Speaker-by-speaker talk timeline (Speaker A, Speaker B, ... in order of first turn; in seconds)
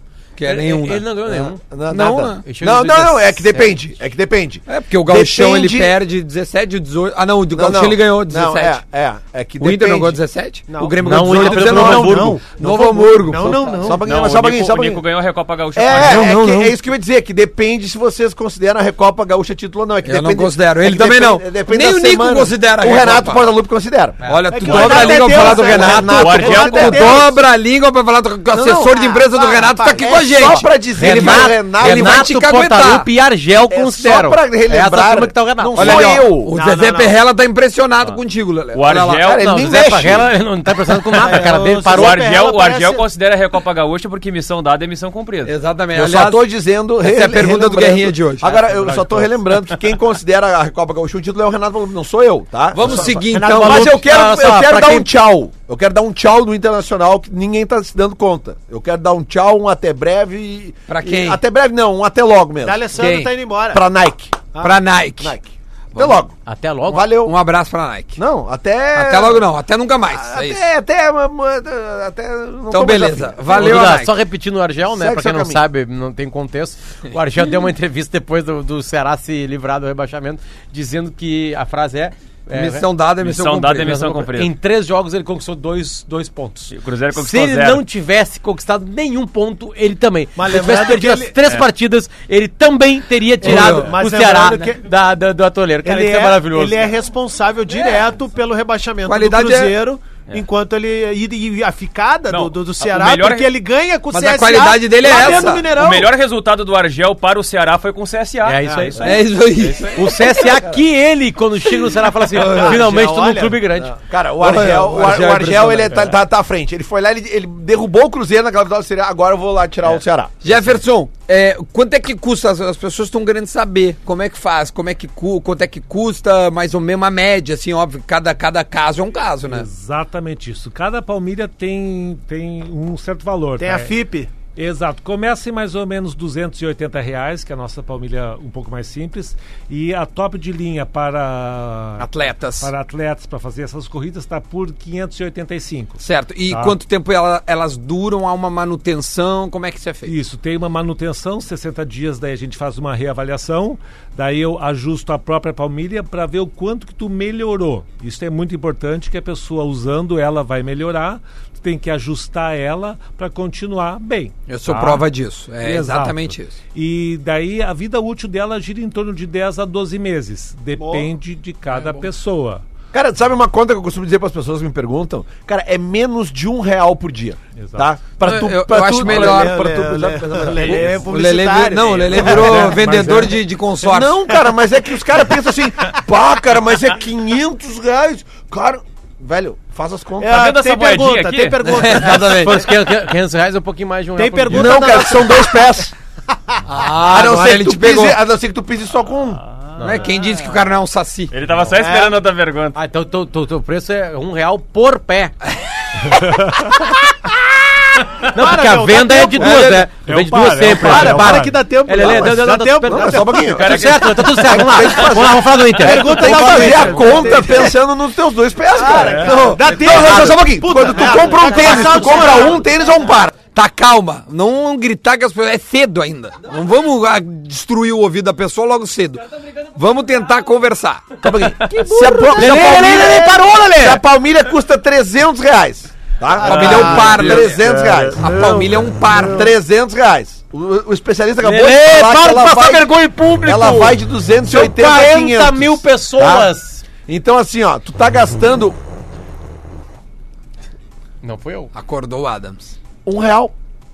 Speaker A: 0.4-1.1, 1.9-2.4, 4.7-8.8, 9.6-13.8, 16.4-16.7, 20.0-23.5, 24.2-33.1, 35.7-39.2, 45.4-46.5, 47.0-48.6, 52.7-54.0, 60.9-61.4, 62.9-63.3, 64.6-65.3, 65.9-66.2, 67.0-68.2, 68.9-70.7, 72.7-74.2, 82.5-84.0, 93.4-94.0, 99.0-99.8, 104.1-105.7, 109.0-110.5, 112.3-112.8, 114.4-116.1, 120.4-129.7, 142.0-142.7, 146.0-150.1, 164.5-166.6, 178.2-179.6, 181.0-184.3, 191.7-192.7, 196.7-198.2, 199.8-201.3, 219.8-220.3, 223.5-229.2, 229.7-231.3, 236.4-239.5, 251.7-252.7
Speaker B: 0.4-1.6, 2.3-3.8, 11.0-12.4, 16.0-16.7, 30.9-36.1, 39.4-42.3, 48.8-49.2, 53.6-55.1, 66.4-67.1, 73.5-82.8, 83.8-96.9, 108.4-109.2, 109.8-114.0, 191.9-194.9, 199.8-200.1, 202.7-205.3, 208.3-217.3, 232.0-234.0, 241.4-246.8, 251.2-251.7
Speaker C: 1.2-5.9, 7.5-10.2, 11.3-15.1, 15.7-27.3, 28.5-29.1, 29.8-32.4, 33.6-36.5, 39.2-40.4, 45.9-62.9, 63.7-64.3, 65.2-66.3, 66.9-67.3, 68.2-69.5, 70.1-73.9, 74.8-75.6, 113.7-120.5, 172.9-181.1, 182.2-182.8, 183.8-190.4, 194.5-195.9, 197.0-199.4, 209.4-209.8, 211.9-223.3, 231.2-238.4, 239.1-248.8, 253.0-253.5
Speaker D: 10.7-12.4, 13.0-14.0, 24.5-27.3, 28.9-30.0, 36.5-37.1, 41.1-43.0, 53.3-54.0, 62.6-63.9, 64.5-64.8, 90.3-91.4, 93.4-94.9, 95.8-106.1, 108.6-109.0, 112.3-113.6, 133.6-134.3, 170.8-171.1, 179.0-182.8, 190.2-192.7, 194.2-195.7, 201.7-202.2, 208.3-209.9, 210.7-213.5, 215.8-217.8, 218.7-222.6
Speaker E: 14.0-16.3, 26.1-27.2, 38.7-39.5, 41.9-45.5, 83.2-84.5, 86.7-87.8, 102.3-103.5, 105.2-109.0, 190.3-191.9, 201.3-202.8, 213.5-214.9, 236.5-237.3
Speaker F: 129.5-133.9, 134.6-142.1, 142.6-146.7, 150.1-165.1, 165.6-172.6, 177.6-177.9, 182.2-183.3, 206.0-206.7, 210.0-211.5